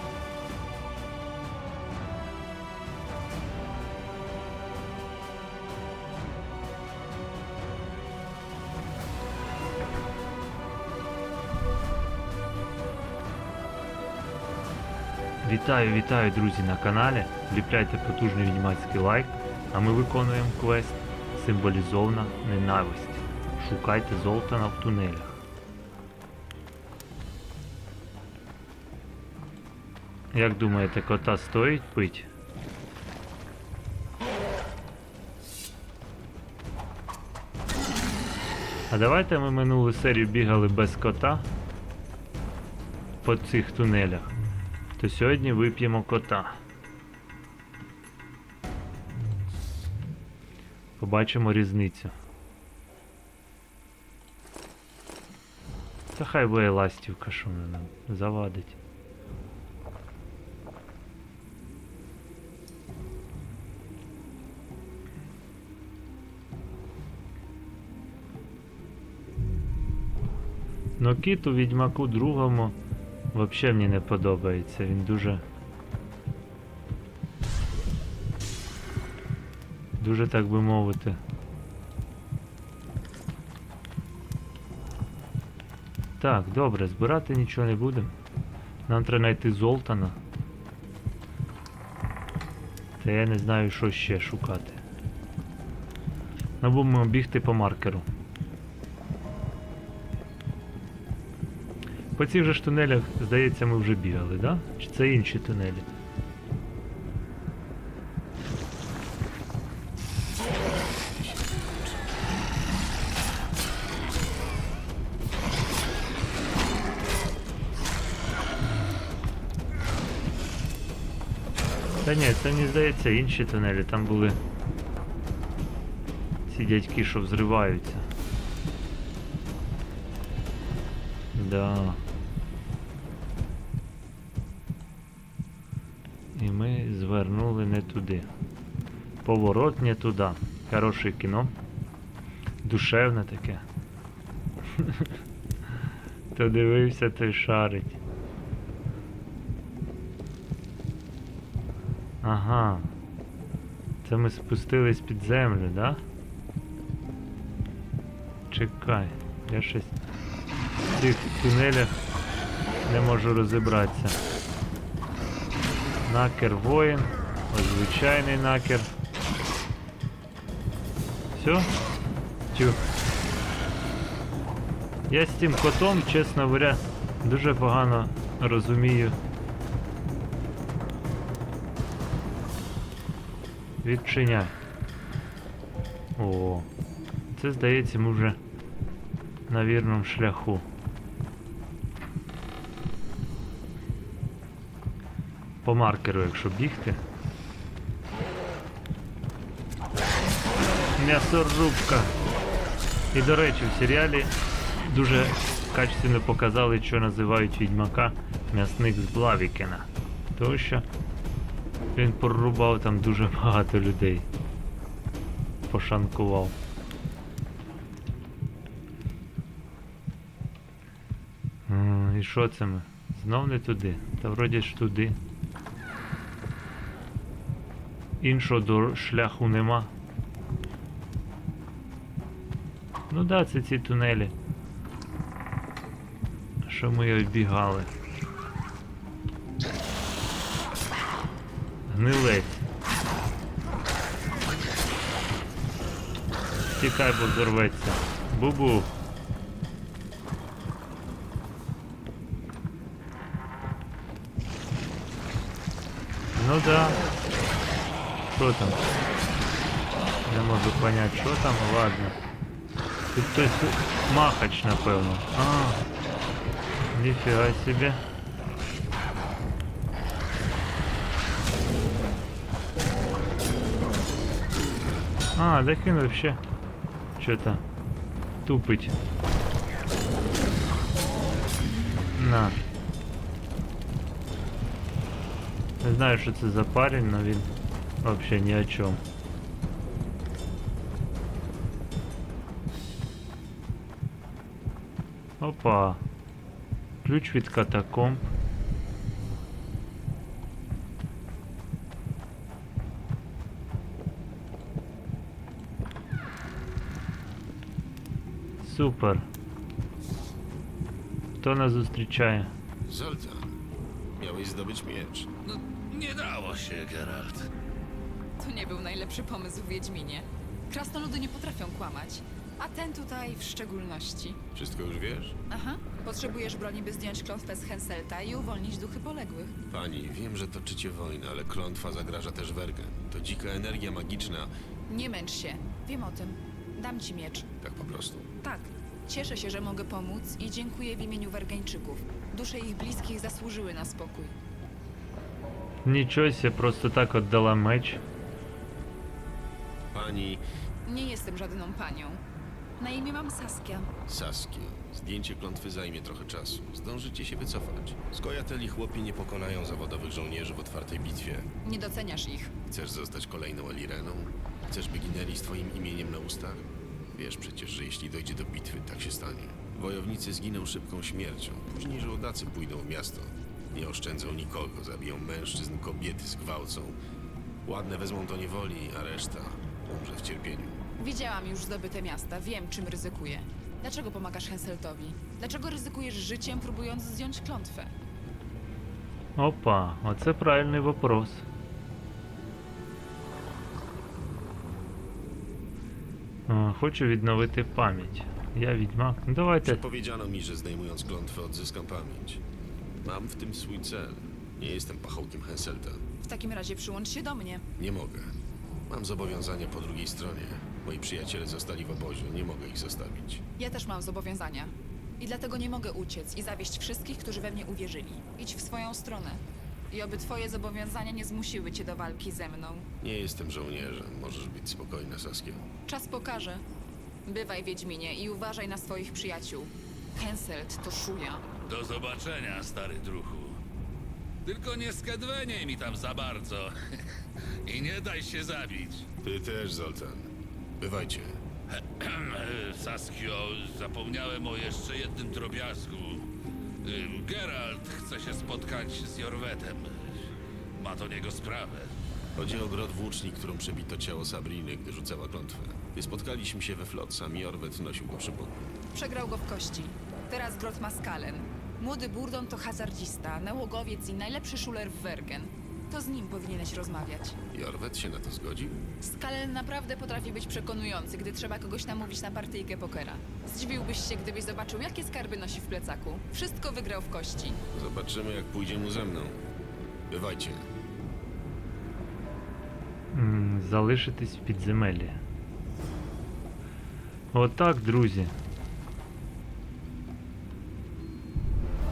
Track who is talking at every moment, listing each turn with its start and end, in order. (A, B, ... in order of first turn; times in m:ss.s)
0:15.4-0:25.4 A
0:30.3-0:32.3 A
0:38.9-0:41.4 A
0:43.2-0:44.3 A
0:45.0-0:46.6 A
0:51.0-0:52.1 A
0:56.1-0:58.8 A
1:11.0-1:12.8 A
1:13.3-1:15.4 A
1:20.0-1:21.2 A
1:26.2-1:28.1 A
1:28.9-1:30.2 A
1:33.0-1:34.8 A
1:36.6-1:38.0 A
1:42.2-1:45.9 A
1:50.6-1:52.0 B
2:02.0-2:04.4 A
2:06.5-2:08.0 A
2:11.3-2:12.0 A
2:16.3-2:18.3 A
2:19.2-2:21.5 A
2:22.6-2:23.6 A
2:24.8-2:25.1 A
2:26.3-2:28.0 A
2:32.2-2:32.9 A
2:34.0-2:36.0 A
2:38.5-2:40.0 A
2:40.9-2:41.9 A
2:42.8-2:44.2 A
2:46.0-2:48.9 A
2:51.4-2:51.7 A
2:52.5-2:52.8 A
2:55.1-2:59.2 A
3:03.8-3:04.6 A
3:06.2-3:06.7 A
3:07.3-3:08.4 A
3:09.5-3:10.6 A
3:15.6-3:17.0 A
3:21.0-3:22.1 A
3:23.1-3:30.8 A
3:31.9-3:34.3 A
3:35.7-3:36.6 A
3:41.7-3:45.2 A
3:48.2-3:49.9 A
3:53.1-3:54.3 A
3:56.6-3:57.9 A
4:01.9-4:02.6 A
4:06.8-4:08.9 A
4:16.4-4:17.0 A
4:18.3-4:18.8 A
4:20.2-4:22.2 A
4:23.1-4:25.8 A
4:26.9-4:28.0 A
4:35.3-4:36.4 A
4:37.2-4:37.6 A
4:38.4-4:38.9 A
4:42.1-4:42.6 A
4:45.8-4:47.5 A
4:48.0-4:49.0 A
4:55.4-4:56.0 A
4:57.0-4:58.3 A
5:08.6-5:09.3 A
5:11.4-5:12.5 A
5:12.8-5:13.5 B
5:14.2-5:15.3 B
5:15.4-5:17.5 C
5:18.4-5:24.4 D
5:24.5-5:25.4 B
5:25.5-5:29.5 D
5:29.7-5:34.5 B
5:34.9-5:37.5 D
5:37.6-5:38.3 B
5:38.4-5:44.3 D
5:45.8-5:48.0 A
5:49.9-5:50.4 B
5:50.8-5:52.2 D
5:52.8-5:53.9 D
5:54.1-6:01.5 B
6:01.6-6:02.5 D
6:02.7-6:17.0 B
6:17.6-6:20.8 B
6:21.0-6:27.9 D
6:29.4-6:31.4 A
6:36.5-6:39.8 A
6:39.6-6:42.4 B
6:43.0-6:46.0 B
6:46.2-6:47.6 D
6:47.8-6:48.3 B
6:48.9-6:53.4 B
6:53.6-7:02.8 D
7:03.0-7:05.6 B
7:05.9-7:06.6 D
7:07.2-7:11.4 D
7:11.6-7:13.6 C
7:14.4-7:19.1 C
7:19.2-7:21.4 B
7:21.7-7:26.3 C
7:26.8-7:31.9 C
7:32.4-7:38.6 B
7:38.9-7:47.4 D
7:47.5-7:48.8 B
7:49.0-7:57.6 D
7:57.7-7:59.4 B
8:00.1-8:00.7 B
8:03.1-8:05.2 A
8:07.3-8:08.3 A